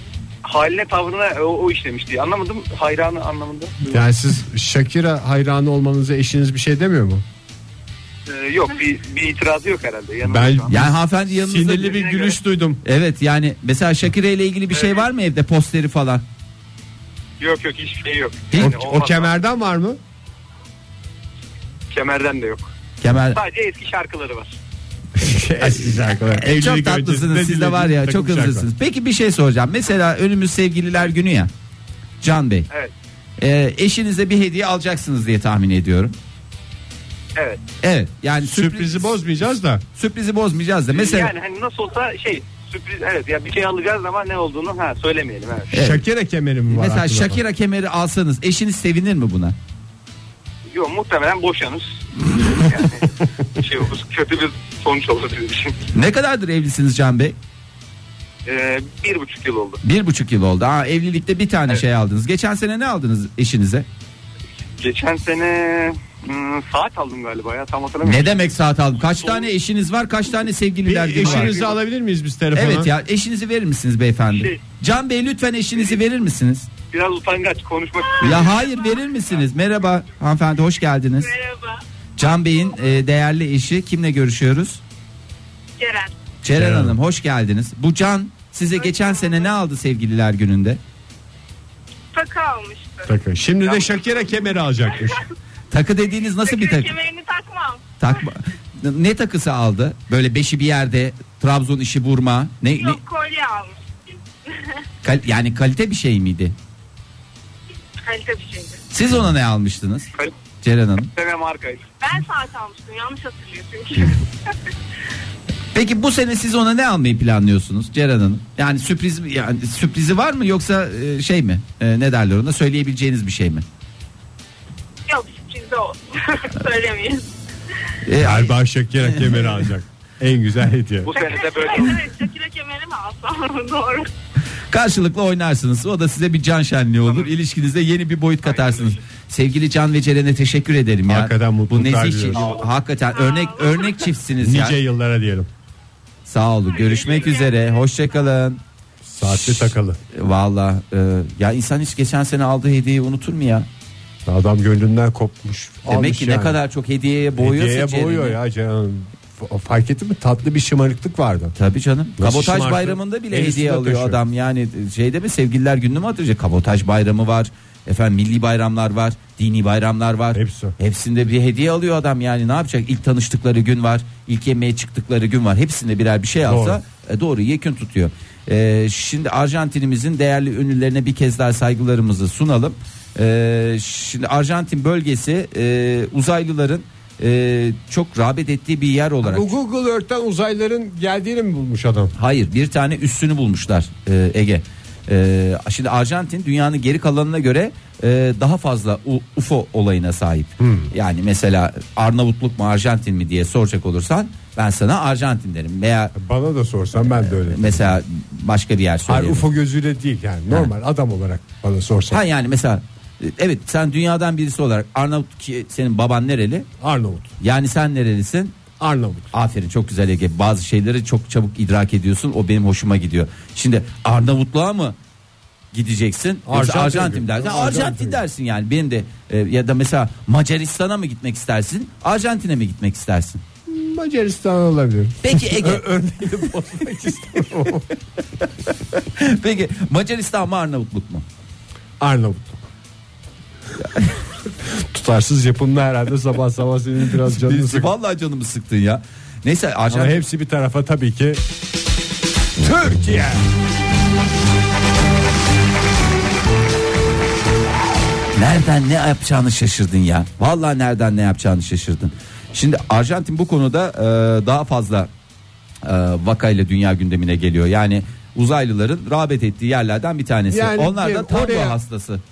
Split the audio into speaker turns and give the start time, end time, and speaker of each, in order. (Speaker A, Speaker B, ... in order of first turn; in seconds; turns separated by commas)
Speaker A: 0.4-4.0, Speaker B: 3.8-7.2, Speaker A: 8.3-10.8, Speaker B: 10.2-12.8, Speaker C: 10.7-12.1, Speaker A: 11.8-12.4, Speaker C: 12.8-16.2, Speaker A: 14.7-15.0, Speaker A: 17.4-19.3, Speaker B: 18.6-20.0, Speaker A: 21.9-22.7, Speaker C: 23.0-23.4, Speaker A: 23.3-24.6, Speaker B: 25.1-28.6, Speaker C: 25.6-31.5, Speaker C: 32.2-32.7, Speaker C: 33.4-36.1, Speaker A: 37.4-37.6, Speaker C: 37.8-41.3, Speaker B: 38.4-39.8, Speaker A: 40.9-45.7, Speaker C: 45.7-46.0, Speaker B: 45.7-47.4, Speaker C: 46.7-49.5, Speaker A: 50.7-55.8, Speaker C: 55.9-57.4, Speaker A: 58.4-59.8, Speaker C: 59.8-63.9, Speaker A: 64.8-68.4, Speaker C: 68.0-71.6, Speaker B: 70.8-72.9, Speaker A: 71.2-71.7, Speaker C: 72.5-76.7, Speaker A: 74.3-74.6, Speaker A: 76.9-78.5, Speaker C: 78.2-81.3, Speaker D: 78.6-78.9, Speaker D: 81.2-81.8, Speaker C: 82.2-84.8, Speaker D: 85.8-86.1, Speaker C: 86.4-90.8, Speaker B: 86.5-87.0, Speaker D: 88.8-89.5, Speaker D: 92.1-93.1, Speaker B: 93.0-95.2, Speaker C: 95.7-96.9, Speaker D: 96.4-97.8, Speaker C: 98.0-103.0, Speaker D: 102.7-103.8, Speaker C: 105.0-106.5, Speaker D: 108.0-108.8, Speaker C: 108.9-110.1, Speaker C: 110.6-111.1, Speaker A: 111.1-111.8, Speaker D: 112.0-114.2, Speaker C: 115.7-123.6, Speaker D: 125.1-127.2, Speaker C: 128.0-129.7, Speaker B: 128.2-131.1, Speaker A: 131.0-132.0, Speaker D: 131.1-134.1, Speaker C: 134.7-144.8, Speaker A: 138.4-138.9, Speaker B: 141.1-142.4, Speaker A: 142.3-142.6, Speaker D: 143.1-144.1, Speaker B: 144.4-145.5, Speaker C: 146.2-148.6, Speaker D: 146.7-147.8, Speaker B: 149.0-150.0, Speaker C: 149.2-153.7, Speaker B: 154.2-156.6, Speaker C: 155.9-158.4, Speaker B: 157.4-161.5, Speaker C: 161.6-189.5, Speaker B: 162.2-164.2, Speaker B: 170.3-170.7, Speaker B: 176.4-176.8, Speaker B: 189.2-192.1, Speaker C: 192.2-206.1, Speaker B: 200.6-200.9, Speaker B: 206.2-208.0, Speaker C: 207.0-209.4, Speaker B: 209.1-212.2, Speaker C: 212.1-216.7, Speaker B: 216.8-217.3, Speaker C: 217.4-218.6, Speaker B: 218.8-219.3, Speaker C: 219.3-225.0, Speaker C: 225.7-233.4, Speaker B: 226.4-228.2, Speaker B: 233.7-237.9, Speaker C: 235.2-235.9, Speaker C: 238.9-241.2, Speaker B: 242.0-242.6, Speaker B: 244.5-247.9, Speaker C: 247.2-250.2, Speaker B: 249.9-251.4, Speaker B: 252.6-253.4, Speaker C: 258.3-265.1, Speaker C: 265.8-272.2, Speaker B: 270.5-271.8